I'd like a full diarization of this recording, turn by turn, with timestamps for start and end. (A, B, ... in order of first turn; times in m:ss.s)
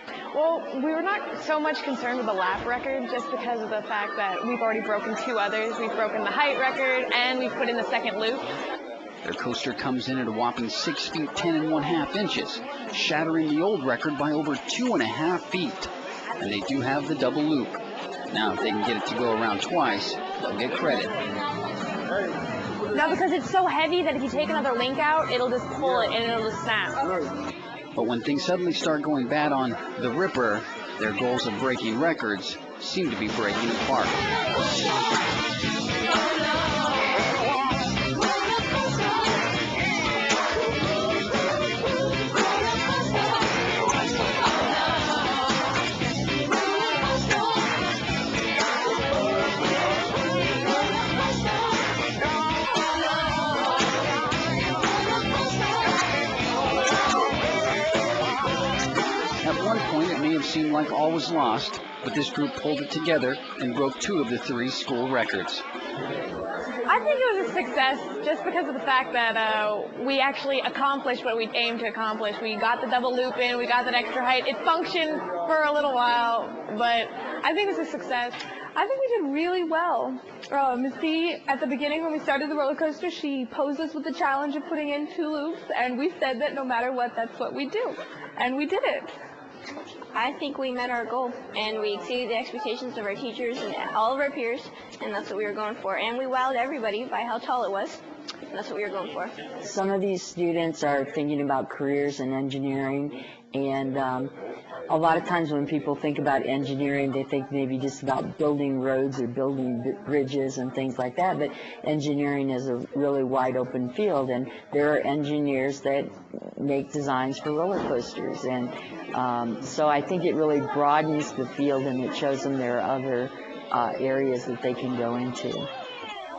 0:00.3-0:08.5 A
0:09.2-0:17.8 B
0:18.3-0:21.1 B
0:22.9-0:27.0 A
0:28.0-0:34.2 B
0:59.4-1:05.6 B
1:06.9-1:18.4 A
1:18.8-1:29.1 C
1:30.1-1:39.4 D
1:39.6-1:44.3 E
1:44.9-2:05.7 E